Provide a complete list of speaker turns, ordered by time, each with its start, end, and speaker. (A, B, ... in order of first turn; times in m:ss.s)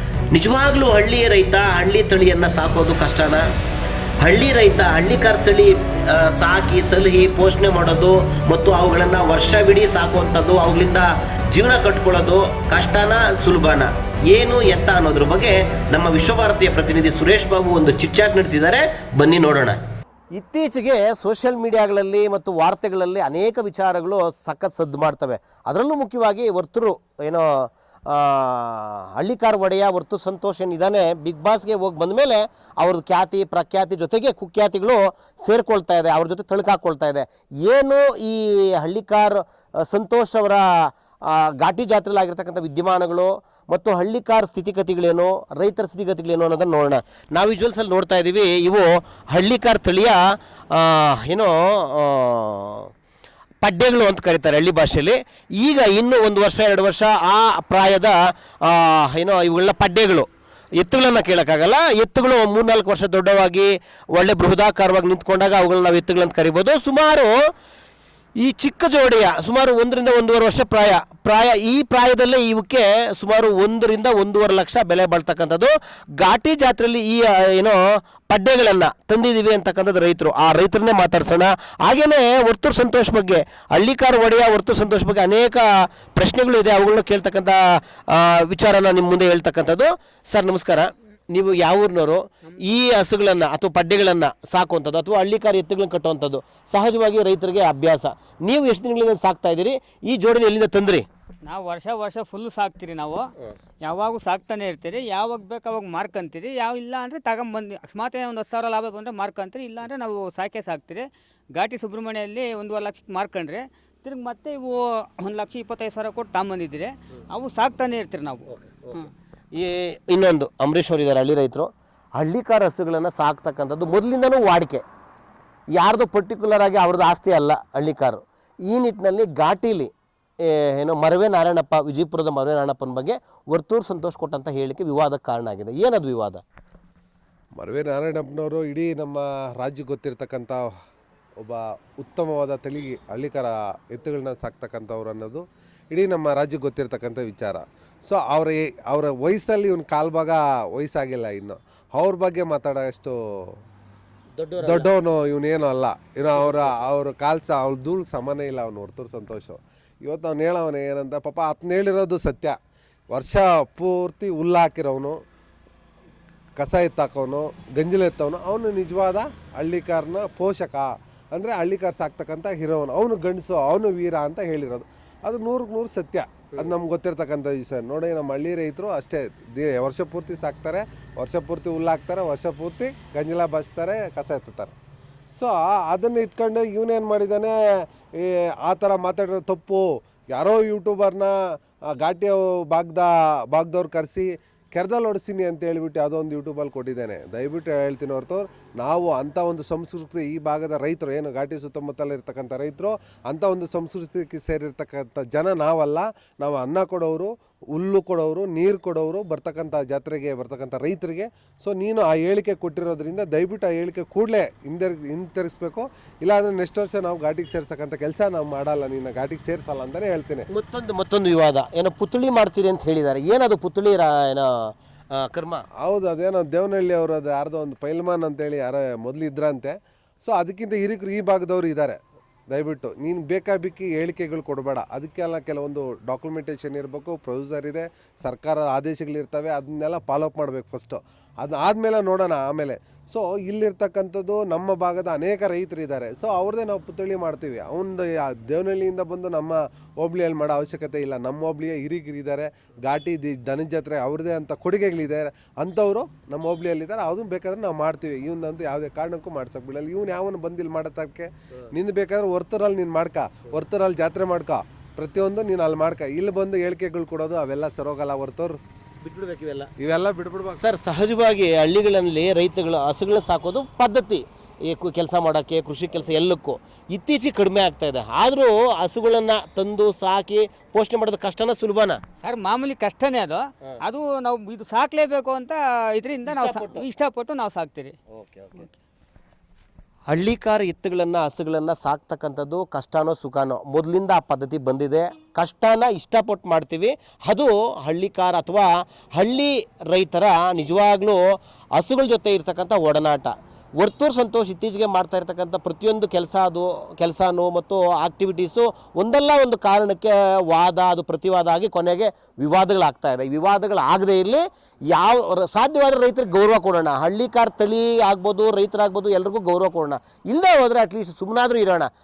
0:00.3-0:03.5 A
0:04.2-0:19.8 A
0:20.4-0:50.2 A
0:50.7-0:52.9 A
0:53.6-1:00.3 A
1:00.8-1:07.3 A
1:08.4-1:41.1 A
1:41.4-1:59.1 B
1:58.5-1:59.0 A
1:59.5-2:04.8 A
2:05.8-2:09.9 A
2:10.4-2:16.4 A
2:17.6-2:20.7 C
2:21.4-2:33.5 C
2:34.4-2:34.9 A
2:34.6-2:42.6 C
2:36.4-2:36.8 A
2:43.1-2:45.2 C
2:46.6-3:04.7 C
3:05.3-3:11.4 C
3:11.9-3:40.5 C
3:40.5-3:45.7 A
3:45.8-3:52.0 C
3:52.5-4:28.6 C
4:29.0-4:29.7 A
4:29.8-4:30.6 C
4:30.6-4:42.0 A
4:42.2-4:48.0 B
4:46.3-4:46.9 A
4:48.1-4:48.6 A
4:50.1-5:21.9 A